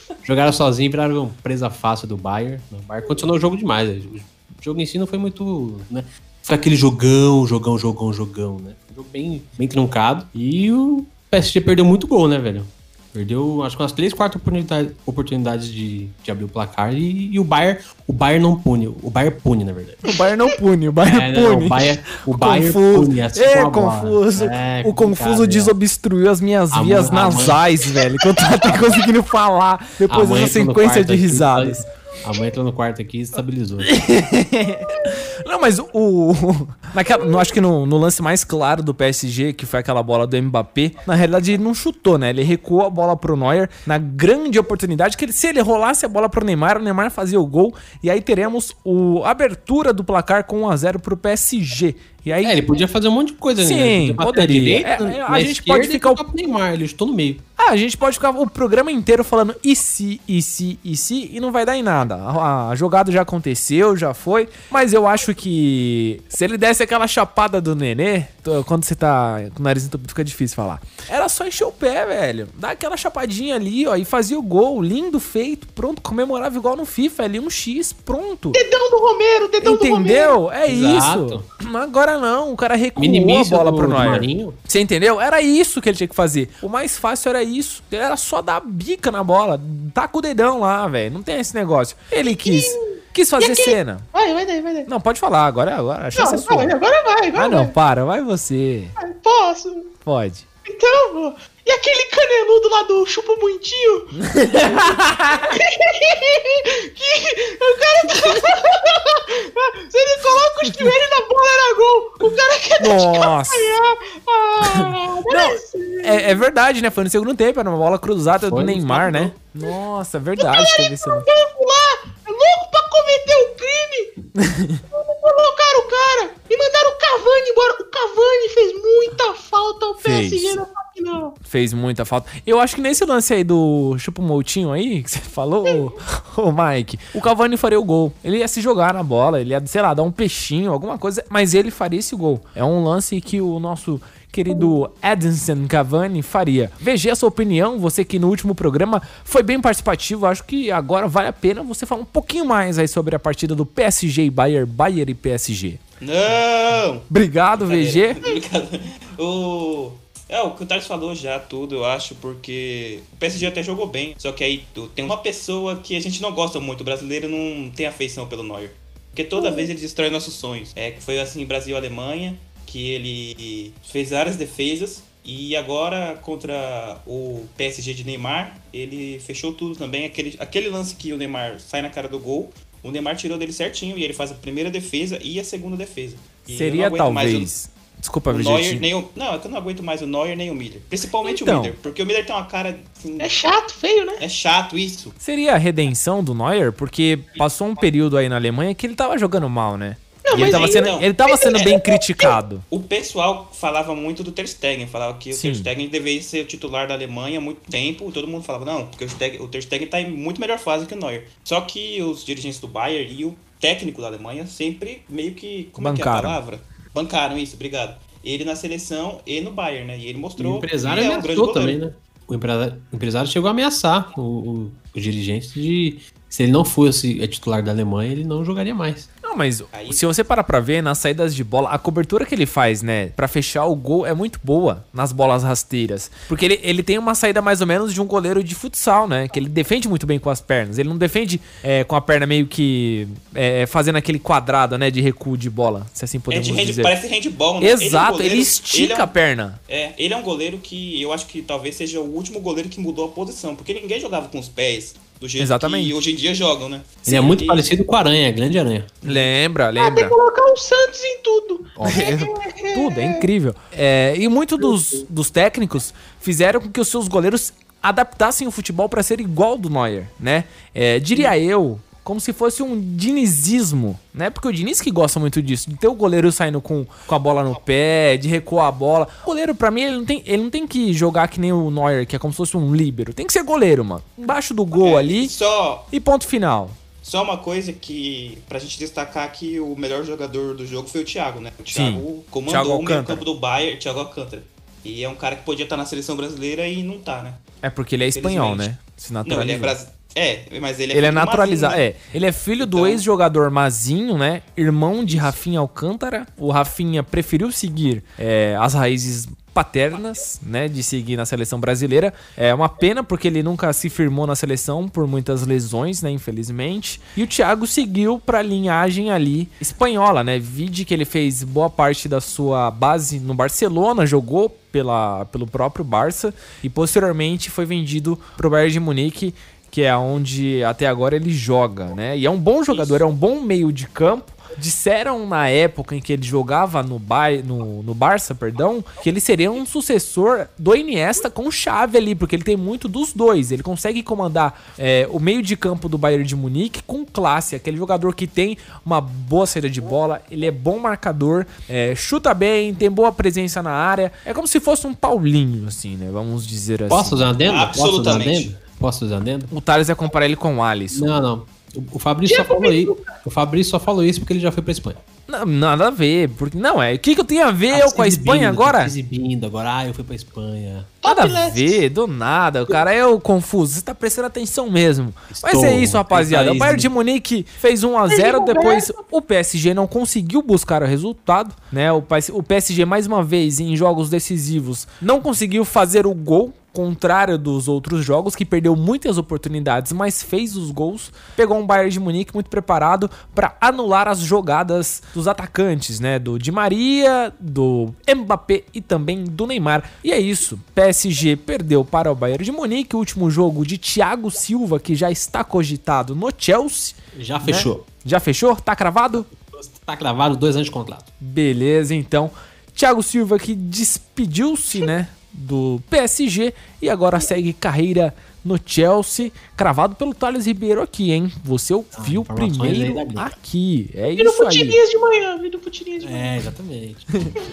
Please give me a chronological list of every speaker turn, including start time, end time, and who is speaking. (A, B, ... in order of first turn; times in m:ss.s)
0:00.2-0:20.0 A
0:20.0-0:31.8 B
0:21.0-0:25.8 A
0:26.7-0:27.7 A
0:30.1-0:33.9 A
0:33.8-0:52.7 B
0:52.4-0:57.4 A
0:53.6-0:56.2 B
0:57.6-1:18.6 B
1:18.5-1:20.4 C
1:19.6-1:34.0 B
1:20.6-1:21.4 A
1:23.0-1:24.6 A
1:32.2-1:34.9 C
1:34.8-1:36.8 B
1:36.1-1:37.7 C
1:37.3-1:38.9 B
1:39.0-1:39.9 C
1:40.0-1:40.4 B
1:40.7-1:44.9 C
1:44.2-1:45.5 B
1:45.4-1:56.4 C
1:52.8-1:53.7 B
1:54.7-2:01.2 B
1:58.4-1:59.3 A
2:00.4-2:04.1 C
2:04.4-2:04.8 B
2:04.9-2:11.3 C
2:10.0-2:10.6 B
2:11.4-2:35.8 B
2:36.0-2:37.0 D
2:37.1-2:38.2 B
2:37.6-3:07.5 D
2:49.4-2:49.7 C
3:06.5-3:08.9 B
3:08.3-3:13.3 D
3:11.2-3:11.8 B
3:13.2-3:14.2 C
3:14.2-3:15.1 D
3:15.2-3:22.6 B
3:20.2-3:22.0 C
3:20.3-3:21.7 D
3:22.7-3:41.8 D
3:25.3-3:25.7 B
3:35.8-3:36.4 B
3:40.4-3:49.1 A
3:49.2-4:07.0 B
3:49.7-3:50.1 D
4:06.3-4:09.1 D
4:07.6-4:09.6 B
4:09.7-4:17.8 D
4:15.4-4:16.0 B
4:17.0-4:18.9 A
4:19.0-4:20.2 B
4:19.8-4:23.2 C
4:21.8-4:45.3 B
4:44.7-4:45.9 D
4:45.9-4:46.8 B
4:47.0-4:57.4 D
4:51.7-4:53.3 B
4:57.6-4:59.7 B
4:58.1-4:58.7 D
4:59.2-5:01.8 D
5:00.9-5:57.4 B
5:02.6-5:03.0 D
5:05.0-5:05.4 D
5:32.7-5:33.0 D
5:56.9-5:59.5 A
5:57.4-5:58.5 D
5:59.5-6:01.2 B
6:00.9-6:05.0 A
6:02.2-6:03.2 C
6:05.3-6:08.9 B
6:07.7-6:10.9 A
6:11.0-6:11.8 C
6:11.0-6:49.3 B
6:15.3-6:16.9 A
6:18.1-6:18.9 C
6:47.1-6:47.8 A
6:49.4-6:51.1 A
6:51.2-7:04.8 B
7:01.9-7:03.3 A
7:04.1-7:06.3 C
7:06.0-7:07.2 A